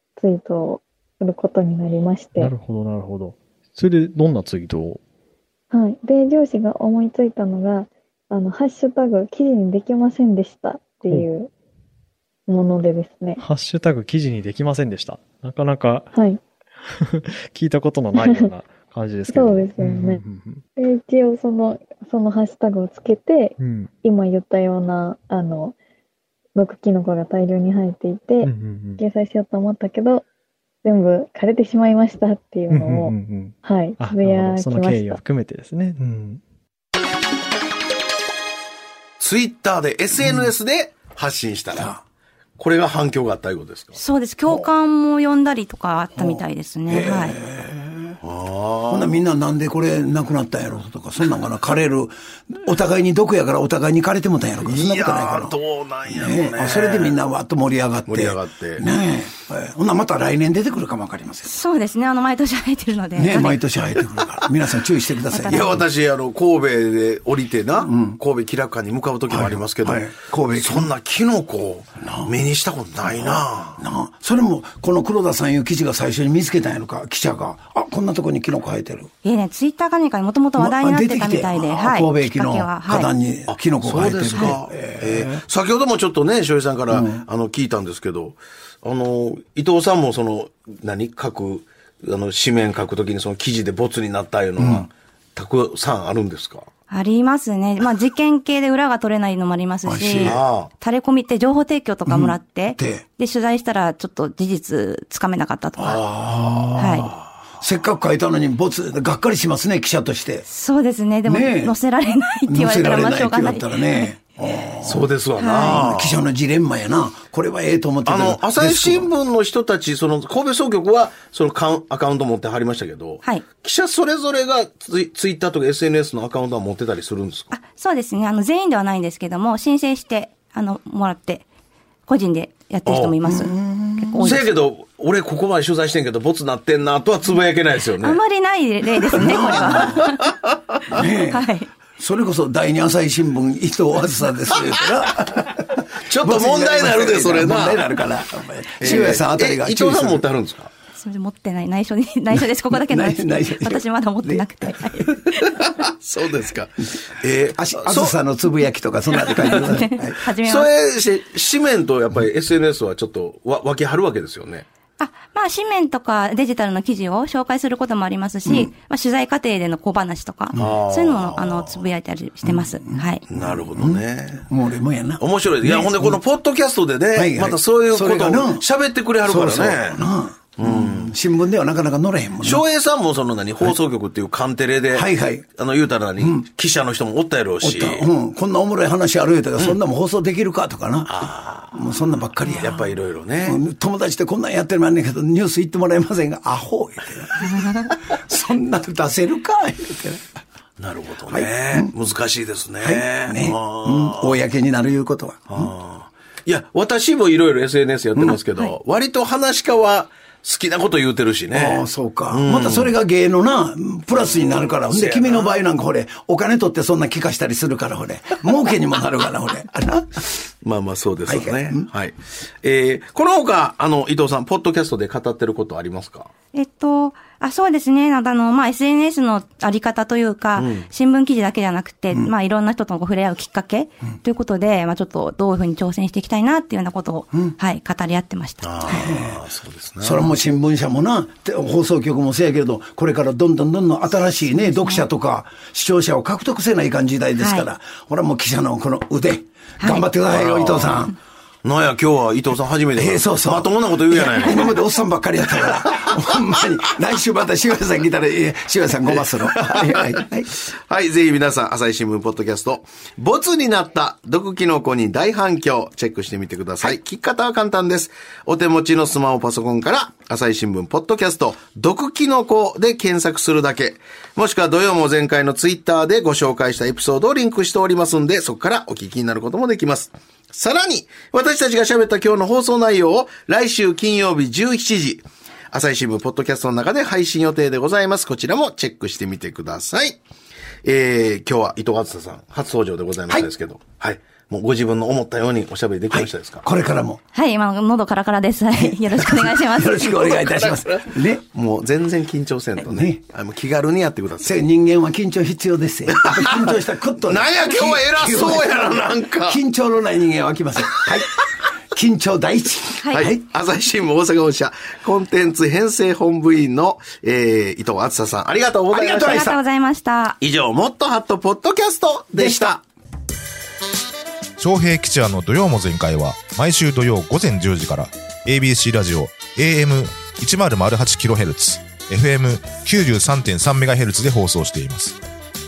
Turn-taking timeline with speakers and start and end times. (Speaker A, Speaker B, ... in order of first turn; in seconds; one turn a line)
Speaker A: 0.2-2.5
Speaker B: 2.4-5.0
Speaker A: 5.7-11.5
Speaker A: 12.5-13.4
Speaker B: 13.4-16.1
Speaker A: 16.1-16.4
Speaker B: 16.9-20.6
Speaker A: 18.2-18.5
Speaker A: 19.3-20.2
Speaker A: 20.8-25.8
Speaker B: 23.6-23.9
Speaker A: 26.6-30.2
Speaker B: 28.4-29.0
Speaker A: 30.8-35.2
Speaker B: 32.7-36.4
Speaker C: 39.2-42.0
Speaker D: 40.2-40.5
Speaker D: 41.7-42.0
Speaker C: 42.6-44.0
Speaker E: 44.0-47.4
Speaker D: 46.2-48.2
Speaker C: 48.2-49.2
Speaker D: 48.9-61.5
Speaker C: 54.6-57.2
Speaker C: 58.1-58.8
Speaker E: 61.4-63.7
Speaker D: 63.2-65.8
Speaker E: 65.3-65.8
Speaker C: 65.5-73.8
Speaker D: 67.8-68.2
Speaker D: 69.3-70.9
Speaker D: 72.0-72.4
Speaker D: 73.0-79.1
Speaker E: 79.2-83.1
Speaker D: 80.6-85.4
Speaker C: 83.5-96.7
Speaker D: 86.9-87.2
Speaker D: 94.6-94.9
Speaker E: 96.9-106.0
Speaker D: 99.9-100.4
Speaker C: 100.2-100.7
Speaker D: 102.1-103.0
Speaker D: 105.8-110.5
Speaker C: 105.9-106.8
Speaker E: 106.8-107.1
Speaker E: 110.5-114.2
Speaker D: 111.2-111.8
Speaker D: 112.5-119.1
Speaker C: 114.8-116.2
Speaker E: 115.4-115.8
Speaker C: 118.0-127.5
Speaker E: 127.5-131.4
Speaker E: 132.1-134.5
Speaker C: 132.9-133.2
Speaker D: 133.2-134.3
Speaker C: 134.2-138.2
Speaker E: 138.0-140.2
Speaker D: 139.1-140.1
Speaker C: 139.2-139.9
Speaker D: 140.9-150.3
Speaker E: 141.3-141.7
Speaker C: 146.1-147.9
Speaker C: 148.8-150.7
Speaker E: 151.0-155.3
Speaker D: 152.3-154.4
Speaker C: 155.6-158.2
Speaker D: 157.6-160.2
Speaker C: 159.3-159.6
Speaker E: 159.3-160.7
Speaker C: 160.4-164.7
Speaker E: 165.0-173.2
Speaker C: 170.5-171.8
Speaker D: 172.4-176.2
Speaker C: 173.3-174.5
Speaker C: 175.2-180.0
Speaker D: 177.1-178.7
Speaker D: 179.2-182.6
Speaker C: 180.6-181.2
Speaker C: 182.4-188.1
Speaker D: 184.9-185.5
Speaker D: 186.2-186.5
Speaker D: 187.6-192.9
Speaker C: 191.1-191.8
Speaker C: 192.5-193.6
Speaker D: 193.4-200.4
Speaker C: 200.8-204.4
Speaker D: 201.3-201.9
Speaker D: 202.8-205.7
Speaker C: 205.5-212.9
Speaker D: 211.5-220.2
Speaker C: 214.2-215.6
Speaker C: 220.6-226.3
Speaker D: 221.3-221.9
Speaker E: 226.5-238.9
Speaker C: 230.6-230.9
Speaker C: 238.6-240.3
Speaker D: 238.9-239.4
Speaker D: 240.0-251.2
Speaker E: 244.6-245.1
Speaker E: 247.4-247.7
Speaker E: 249.8-250.1
Speaker C: 250.3-251.1
Speaker C: 251.6-254.7
Speaker D: 253.0-260.5
Speaker C: 259.7-260.0
Speaker C: 260.6-290.2
Speaker C: 290.8-296.6
Speaker D: 296.1-297.2
Speaker E: 297.3-300.3
Speaker D: 298.7-301.4
Speaker C: 301.5-304.5
Speaker D: 302.9-303.2
Speaker D: 304.4-313.4
Speaker C: 306.1-306.7
Speaker C: 307.2-309.6
Speaker C: 313.1-319.6
Speaker D: 318.9-319.6
Speaker E: 319.2-320.4
Speaker C: 320.4-322.8
Speaker D: 322.3-322.6
Speaker F: 324.6-335.2